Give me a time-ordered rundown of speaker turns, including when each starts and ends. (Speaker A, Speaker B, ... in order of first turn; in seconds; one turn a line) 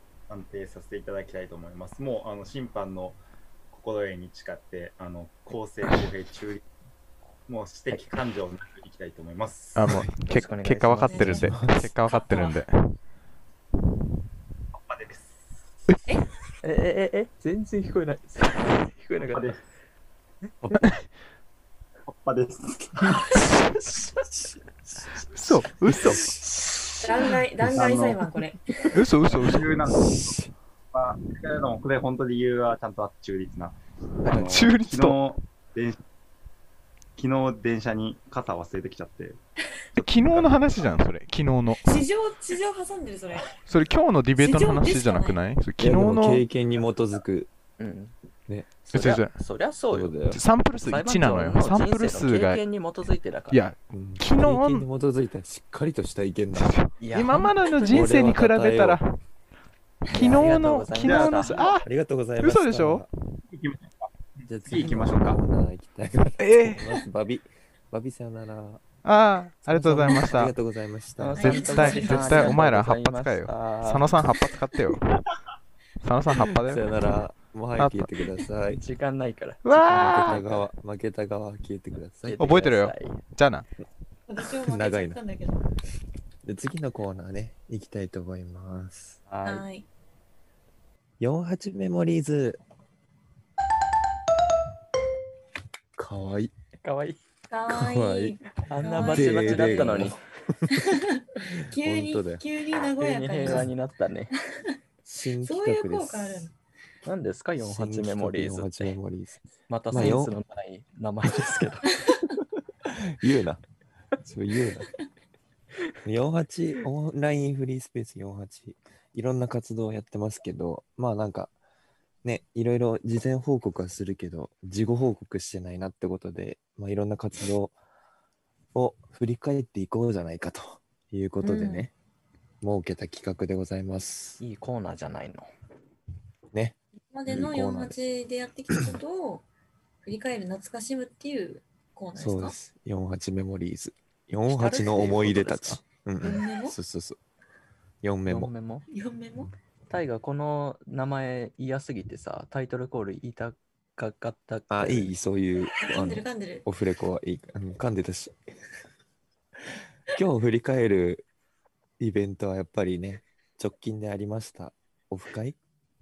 Speaker A: 0.3-3.2
Speaker A: 3.7-6.6
Speaker A: 7.5-10.1
Speaker B: 9.7-12.9
Speaker C: 10.2-11.5
Speaker D: 11.0-12.6
Speaker A: 14.7-15.5
Speaker C: 16.6-19.5
Speaker A: 19.3-19.6
Speaker A: 22.1-23.3
Speaker B: 25.3-26.9
Speaker E: 25.5-26.6
Speaker D: 27.0-28.8
Speaker A: 27.6-28.2
Speaker B: 28.9-30.0
Speaker A: 29.2-36.0
Speaker E: 30.1-30.4
Speaker C: 34.2-34.5
Speaker B: 34.4-35.2
Speaker A: 37.2-39.4
Speaker A: 40.0-40.5
Speaker B: 40.0-41.9
Speaker D: 41.8-43.6
Speaker B: 43.5-46.5
Speaker D: 44.4-45.4
Speaker E: 45.8-47.5
Speaker C: 47.8-48.1
Speaker E: 48.5-48.7
Speaker C: 48.8-50.1
Speaker B: 48.9-49.4
Speaker E: 49.9-50.4
Speaker B: 50.3-52.6
Speaker C: 50.7-53.6
Speaker B: 53.5-54.9
Speaker E: 53.9-56.7
Speaker B: 56.5-59.2
Speaker C: 57.0-58.3
Speaker E: 57.8-59.0
Speaker B: 60.1-63.0
Speaker C: 60.1-61.7
Speaker A: 61.0-61.8
Speaker E: 61.8-63.1
Speaker A: 63.5-65.4
Speaker E: 64.5-68.8
Speaker B: 66.4-67.0
Speaker B: 69.0-70.5
Speaker E: 69.7-71.4
Speaker C: 71.2-74.4
Speaker D: 71.3-72.6
Speaker B: 71.4-75.2
Speaker B: 76.0-77.0
Speaker E: 76.3-78.8
Speaker B: 77.8-78.4
Speaker C: 78.7-80.7
Speaker B: 79.6-80.4
Speaker E: 79.9-82.5
Speaker C: 82.2-83.2
Speaker B: 82.4-83.7
Speaker D: 84.3-85.7
Speaker E: 84.6-85.2
Speaker E: 86.4-89.2
Speaker C: 89.3-89.7
Speaker D: 89.4-89.8
Speaker E: 91.2-92.6
Speaker E: 96.0-96.5
Speaker C: 96.8-97.2
Speaker D: 97.5-100.1
Speaker E: 97.7-98.4
Speaker C: 98.6-100.2
Speaker E: 99.0-100.8
Speaker D: 100.7-103.7
Speaker E: 101.7-102.4
Speaker C: 103.0-104.3
Speaker E: 105.0-106.5
Speaker D: 105.4-106.5
Speaker C: 107.0-109.0
Speaker E: 107.6-110.3
Speaker C: 109.7-111.9
Speaker E: 112.8-113.6
Speaker E: 114.2-114.9
Speaker E: 116.0-121.5
Speaker E: 122.2-127.7
Speaker E: 128.7-131.9
Speaker D: 131.4-131.9
Speaker E: 132.6-134.4
Speaker C: 134.4-135.5
Speaker E: 136.5-138.0
Speaker D: 137.1-139.4
Speaker D: 140.0-142.6
Speaker E: 142.2-147.2
Speaker C: 144.5-145.8
Speaker D: 146.2-146.8
Speaker E: 148.0-148.5
Speaker C: 148.3-148.8
Speaker D: 148.9-149.5
Speaker C: 149.9-155.1
Speaker E: 154.7-158.4
Speaker D: 155.8-156.6
Speaker E: 160.1-161.2
Speaker E: 162.0-165.6